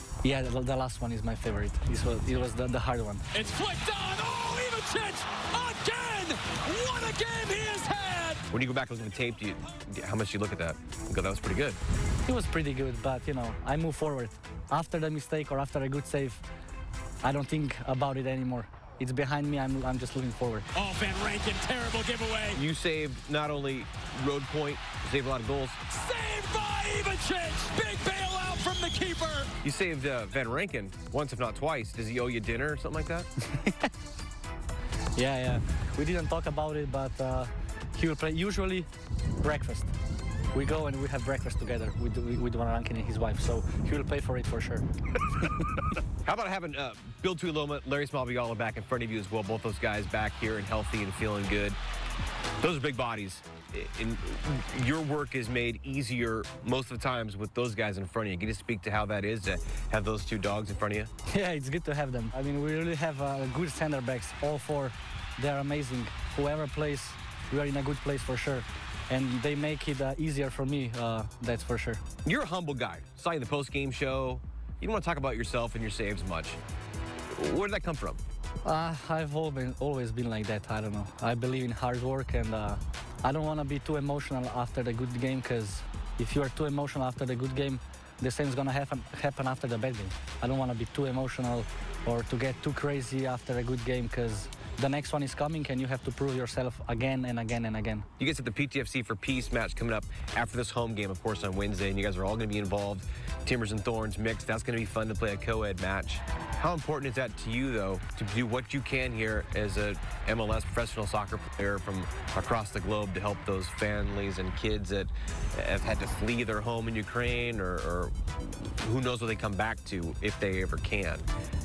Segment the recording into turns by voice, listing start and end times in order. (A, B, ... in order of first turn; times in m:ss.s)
0:00.2-0:03.3 A
0:03.3-0:08.4 B
0:08.5-0:11.8 C
0:12.2-0:16.4 A
0:17.2-0:20.7 A
0:20.8-0:22.6 B
0:22.6-0:25.8 C
0:25.9-0:29.5 B
0:29.6-0:33.3 C
0:35.2-0:38.9 A
0:39.4-0:39.9 A
0:40.5-0:44.9 A
0:46.2-0:51.8 C
0:52.6-1:01.1 C
1:01.3-1:12.0 A
1:12.2-1:16.6 C
1:17.3-1:18.2 C
1:18.6-1:38.1 A
1:38.2-2:01.3 C